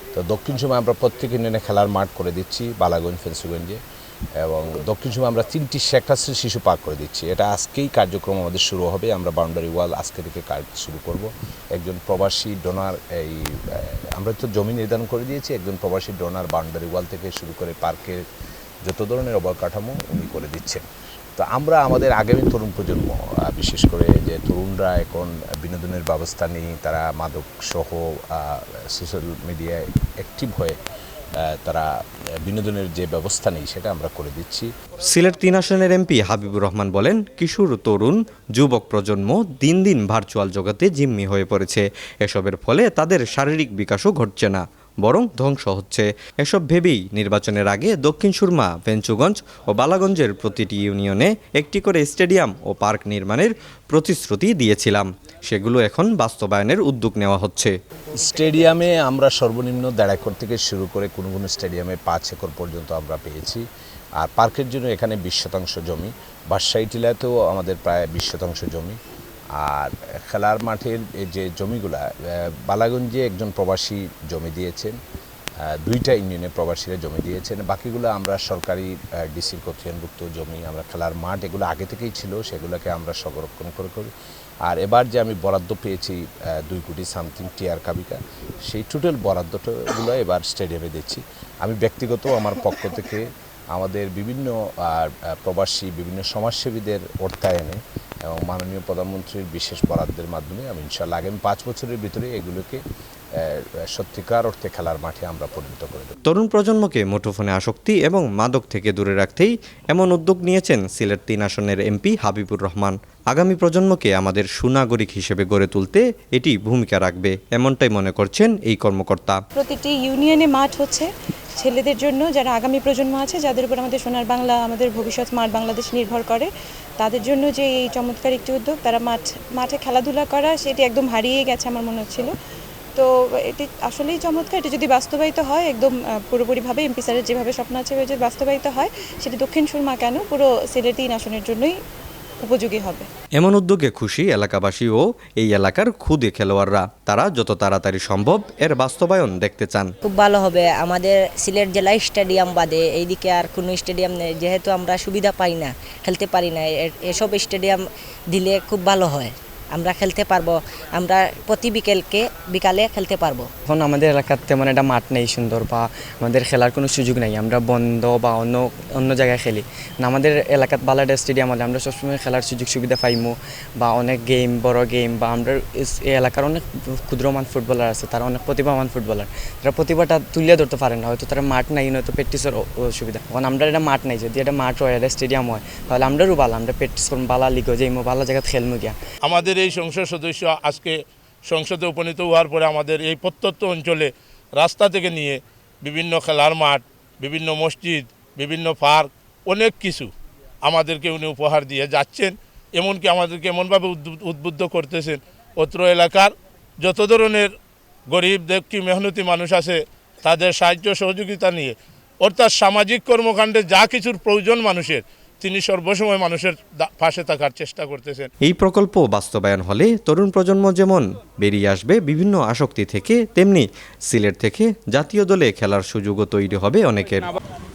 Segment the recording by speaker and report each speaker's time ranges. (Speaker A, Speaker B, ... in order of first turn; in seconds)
Speaker A: 0.1-3.8, 4.4-18.2, 18.8-20.8, 21.4-30.8, 31.4-31.9, 32.4-34.7, 58.1-63.6, 64.2-69.0, 69.5-75.0, 75.6-84.1, 84.7-102.8, 103.4-106.1
Speaker B: 35.1-57.7, 106.3-119.4, 143.3-149.9, 218.4-227.3
Speaker C: 119.5-126.5, 127.0-132.3, 132.9-141.8, 142.4-143.1
Speaker D: 150.0-163.5
Speaker E: 163.7-189.0
Speaker F: 189.2-200.1, 200.6-207.5, 208.1-218.3